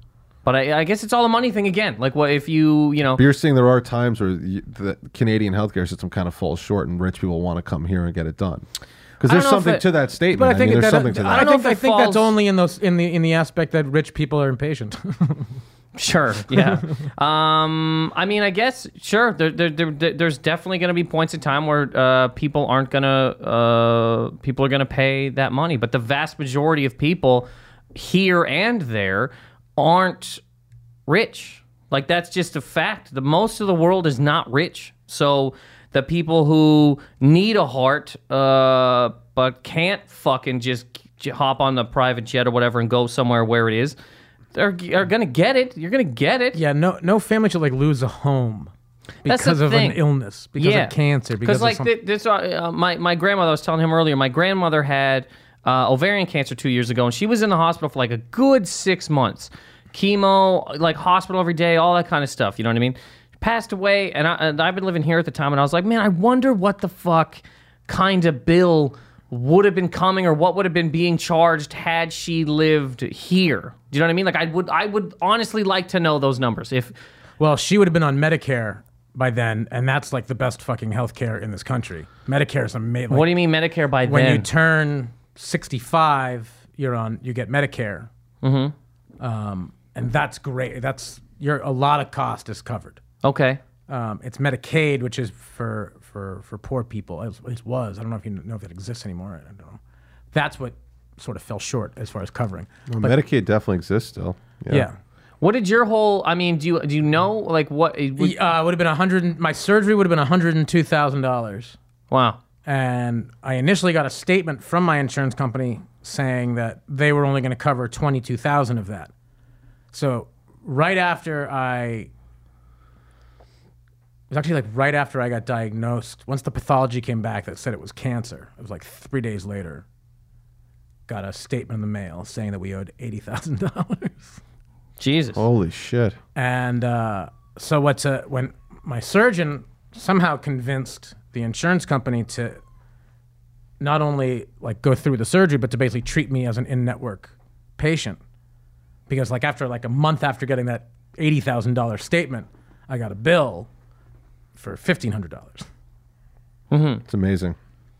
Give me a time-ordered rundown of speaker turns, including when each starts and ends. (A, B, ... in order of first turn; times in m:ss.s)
0:00.4-0:03.2 A
0:03.2-0:08.6 B
0:09.2-0:11.5 B
0:09.2-0:09.8 A
0:10.3-0:15.5 C
0:11.3-0:12.3 A
0:15.9-0:30.4 A
0:31.1-0:44.0 A
0:44.5-0:46.6 A
0:46.5-0:48.7 C
0:49.2-0:50.0 A
0:49.2-0:51.9 C
0:50.6-1:16.9 A
1:17.4-1:23.3 C
1:23.1-1:24.5 A
1:24.0-1:28.1 C
1:28.4-1:28.7 A
1:29.2-1:33.0 C
1:33.2-1:33.6 A
1:33.9-1:39.8 C
1:40.3-1:43.2 C
1:42.9-1:44.9 B
1:44.7-1:45.0 C
1:45.4-1:48.4 A
1:48.2-1:51.8 C
1:52.1-1:52.4 A
1:52.6-1:59.1 C
1:59.9-2:02.1 C
2:04.3-2:09.8 C
2:11.1-2:14.4 C
2:15.0-2:15.4 A
2:15.4-2:16.2 B
2:16.3-2:22.6 C
2:23.8-2:28.2 C
2:29.1-2:33.7 C
2:34.6-2:35.7 C
2:36.7-2:37.0 A
2:37.1-2:37.6 B